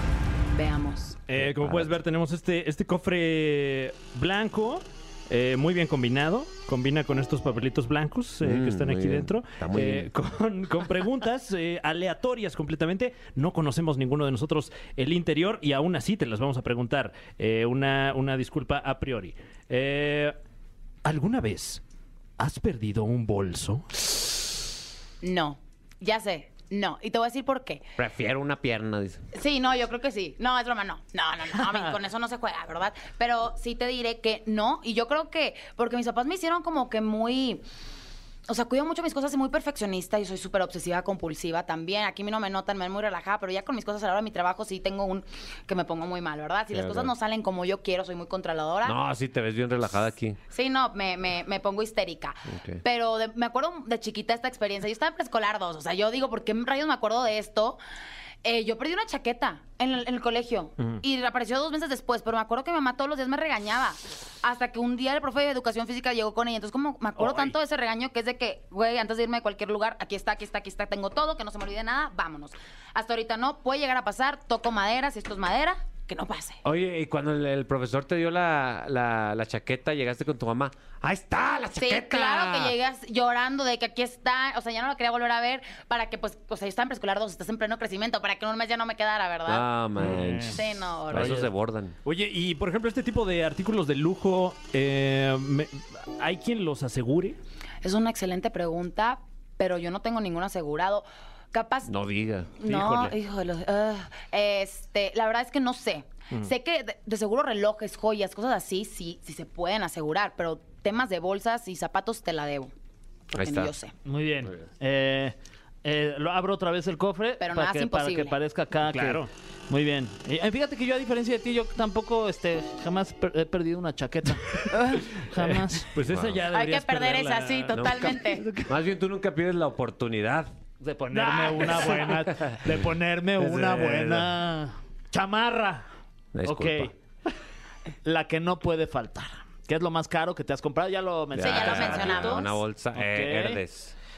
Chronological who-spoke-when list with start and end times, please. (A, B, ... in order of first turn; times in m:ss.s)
0:00.5-0:01.2 A
0:01.3-0:20.4 B
0:01.3-0:01.9 C
0:08.4-0:10.1 C
0:21.0-0:21.8 B
0:22.4-0:24.1 B
0:25.2-0:27.8 A
0:28.0-0:29.2 C
0:29.3-0:37.6 A
0:38.5-0:49.0 A
0:46.7-0:47.1 C
0:48.8-0:50.4 C
0:50.5-0:57.8 A
0:52.5-0:52.8 C
0:58.4-1:16.6 A
1:07.2-1:07.5 D
1:16.6-1:22.8 C
1:21.8-1:29.7 A
1:29.5-1:32.0 C
1:30.1-1:30.4 D
1:30.5-1:31.4 A
1:31.1-1:31.5 B
1:32.0-1:37.4 B
1:37.8-1:41.9 A
1:41.9-1:43.2 C
1:42.6-1:52.7 A
1:53.3-1:53.7 C
1:53.3-1:53.9 A
1:54.0-2:05.9 D
1:57.4-1:58.4 A
1:58.9-1:59.3 B
2:04.7-2:05.1 A
2:05.4-2:08.7 B
2:06.0-2:06.5 C
2:06.5-2:08.4 A
2:07.7-2:10.5 C
2:10.8-2:15.9 D
2:11.2-2:12.2 B
2:11.5-2:12.7 C
2:13.4-2:14.4 C
2:16.3-2:16.9 C
2:16.4-2:16.9 D
2:18.0-2:23.6 D
2:21.3-2:24.0 C
2:21.4-2:22.6 A